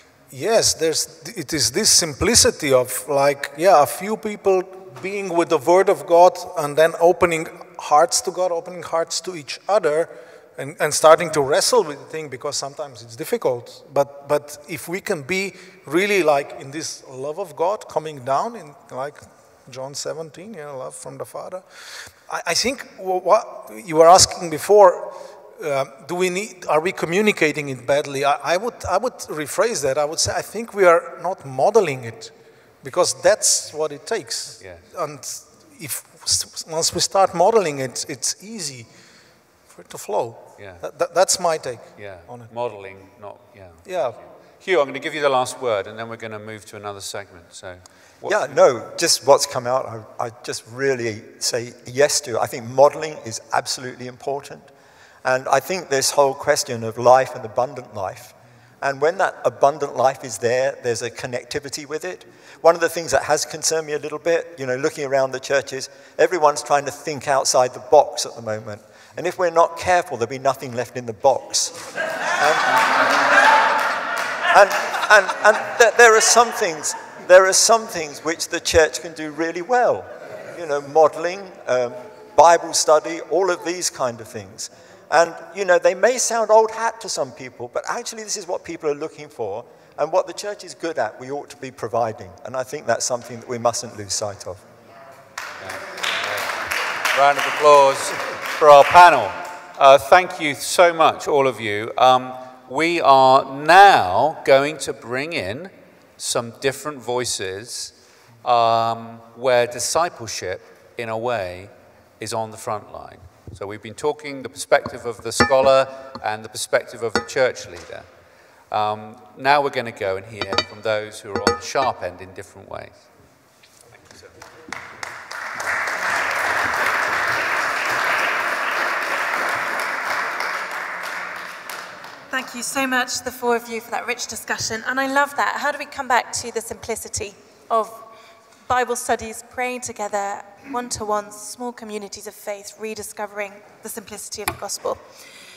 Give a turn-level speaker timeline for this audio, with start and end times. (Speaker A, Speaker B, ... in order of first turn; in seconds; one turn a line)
Speaker A: 0.3-38.9
Speaker B: 34.6-34.8
Speaker A: 39.7-42.5
Speaker B: 40.6-40.9
Speaker B: 42.0-48.6
Speaker A: 43.8-44.2
Speaker C: 48.2-54.7
Speaker C: 55.2-73.0
Speaker C: 74.5-94.6
Speaker B: 95.6-96.5
Speaker B: 97.1-107.9
Speaker B: 108.4-118.1
Speaker B: 118.7-123.0
Speaker D: 132.3-138.0
Speaker D: 138.7-145.0